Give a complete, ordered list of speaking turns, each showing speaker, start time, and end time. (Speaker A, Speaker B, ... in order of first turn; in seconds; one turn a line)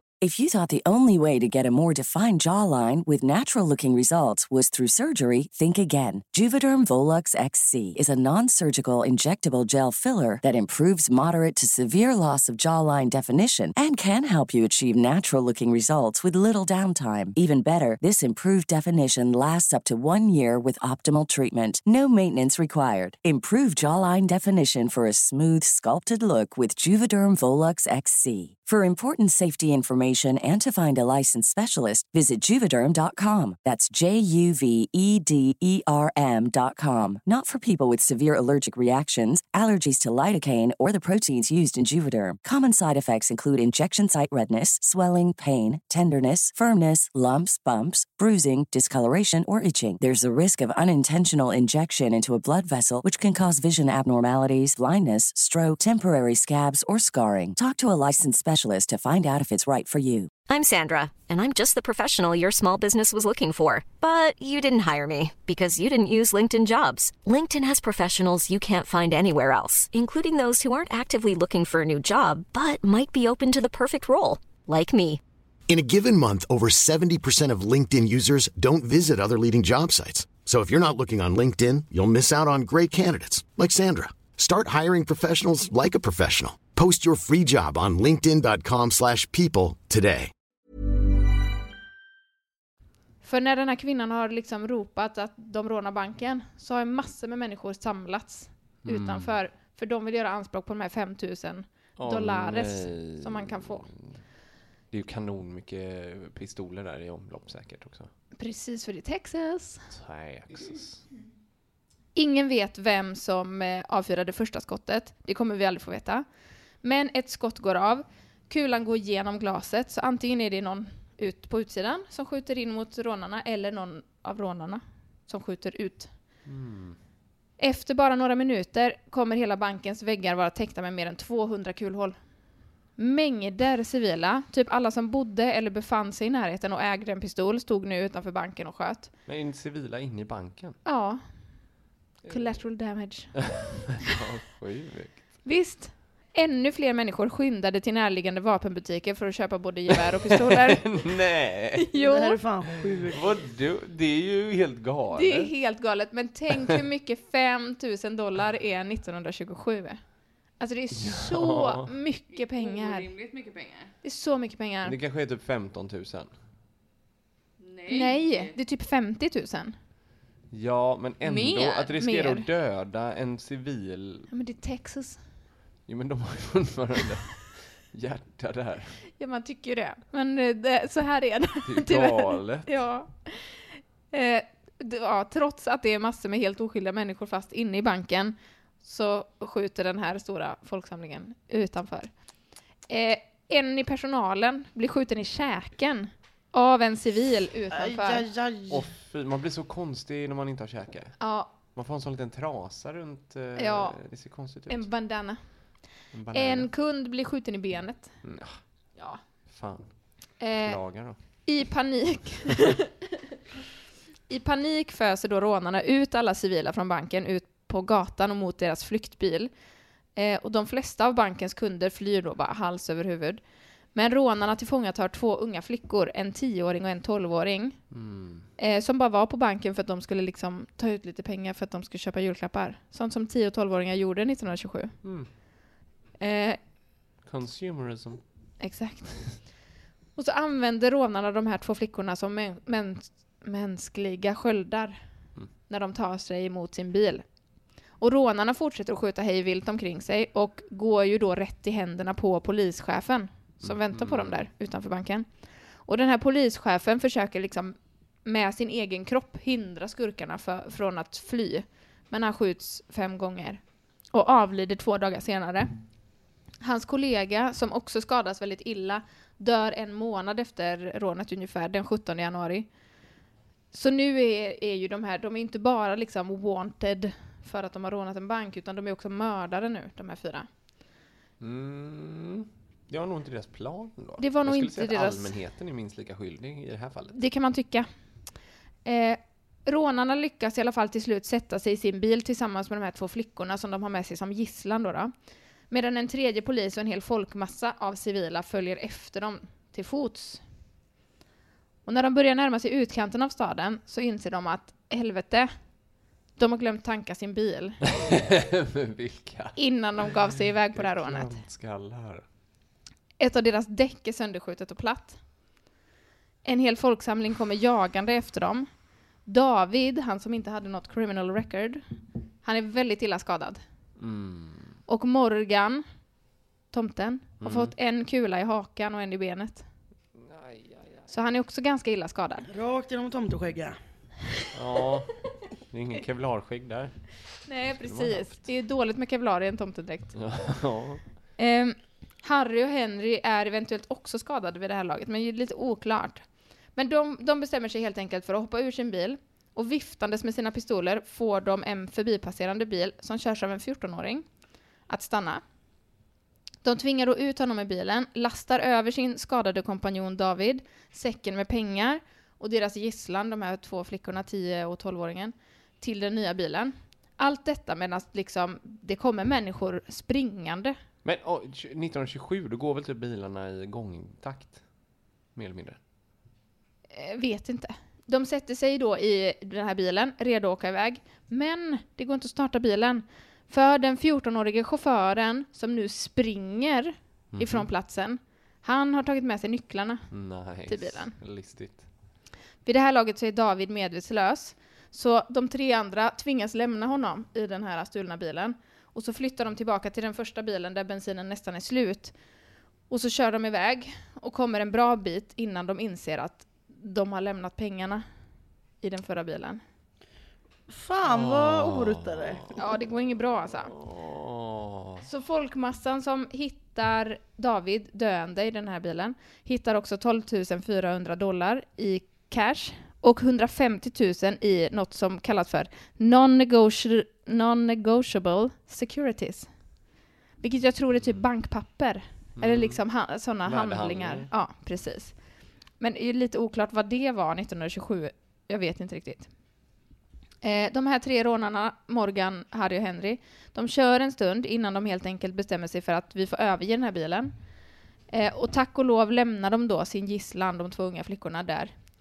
Speaker A: 0.2-60.3
Speaker B: 60.5-75.2
Speaker C: 75.7-90.3
Speaker D: 93.2-103.9
Speaker E: 98.8-99.3
Speaker E: 102.0-104.2
Speaker E: 104.9-108.1
Speaker D: 108.3-109.8
Speaker E: 109.9-111.0
Speaker D: 112.1-116.2
Speaker D: 116.8-126.1
Speaker E: 126.5-127.0
Speaker D: 127.6-132.2
Speaker D: 133.0-139.1
Speaker E: 139.3-140.8
Speaker D: 140.8-141.2
Speaker E: 142.2-142.5
Speaker D: 142.3-143.3
Speaker E: 143.3-145.2
Speaker D: 145.4-151.1
Speaker E: 150.2-151.9
Speaker D: 151.8-152.4
Speaker F: 151.9-153.3
Speaker E: 152.9-155.5
Speaker D: 155.1-160.0
Speaker D: 160.6-163.1
Speaker E: 161.0-161.9
Speaker G: 162.3-163.9
Speaker D: 164.0-164.9
Speaker E: 164.8-166.3
Speaker G: 167.6-168.5
Speaker D: 167.9-169.7
Speaker E: 170.5-174.3
Speaker G: 171.2-171.9
Speaker D: 171.9-172.4
Speaker D: 174.3-175.2
Speaker E: 175.9-179.0
Speaker D: 179.2-192.1
Speaker E: 181.7-182.7
Speaker D: 192.9-198.3
Speaker F: 197.7-198.9
Speaker E: 198.7-204.8
Speaker D: 201.2-201.5
Speaker D: 203.6-204.0
Speaker D: 204.7-205.4
Speaker E: 206.1-206.7
Speaker D: 206.3-208.1
Speaker E: 208.2-208.6
Speaker E: 209.5-209.9
Speaker D: 210.4-210.8
Speaker E: 210.6-211.2
Speaker D: 211.4-212.9
Speaker D: 214.3-219.5
Speaker D: 220.2-223.4
Speaker D: 223.9-227.8
Speaker E: 227.9-228.4
Speaker D: 228.6-234.9
Speaker E: 235.0-235.3
Speaker D: 236.2-236.6
Speaker E: 237.2-238.2
Speaker D: 238.6-239.3
Speaker D: 240.2-245.0
Speaker D: 245.7-247.2
Speaker D: 248.0-255.3
Speaker E: 253.6-254.4
Speaker D: 255.8-265.7
Speaker D: 266.6-272.7
Speaker D: 273.7-280.5
Speaker E: 281.4-287.2
Speaker D: 284.2-285.4
Speaker D: 287.1-287.9
Speaker D: 288.8-295.1
Speaker D: 295.7-300.4
Speaker D: 301.9-305.5
Speaker D: 306.4-307.8
Speaker E: 307.9-310.2
Speaker D: 309.6-311.4
Speaker E: 310.7-312.2
Speaker D: 313.2-315.2
Speaker D: 316.4-318.7
Speaker D: 319.2-321.8
Speaker D: 322.4-323.6
Speaker E: 324.0-324.7
Speaker D: 324.9-325.8
Speaker D: 326.7-329.6
Speaker E: 327.4-327.7
Speaker E: 330.3-330.8
Speaker D: 331.1-332.5
Speaker F: 332.5-333.8
Speaker E: 334.5-335.1
Speaker E: 335.7-336.9
Speaker D: 337.4-340.1
Speaker E: 337.7-338.4
Speaker E: 340.1-341.0
Speaker D: 341.4-346.2
Speaker D: 346.7-354.2
Speaker D: 354.9-355.4
Speaker D: 356.6-370.8
Speaker E: 371.0-374.6
Speaker E: 375.4-375.8
Speaker D: 376.9-390.1
Speaker E: 387.3-387.7
Speaker E: 390.1-391.8
Speaker D: 390.7-391.1
Speaker D: 392.6-402.1
Speaker D: 402.9-408.0
Speaker D: 408.8-409.6
Speaker F: 410.7-412.5
Speaker E: 411.1-412.5
Speaker D: 412.6-413.7
Speaker E: 413.7-415.0
Speaker D: 415.0-429.5
Speaker D: 430.4-435.1
Speaker E: 432.4-432.8
Speaker E: 433.4-434.3
Speaker D: 435.8-439.3
Speaker D: 440.4-447.3
Speaker D: 448.1-451.7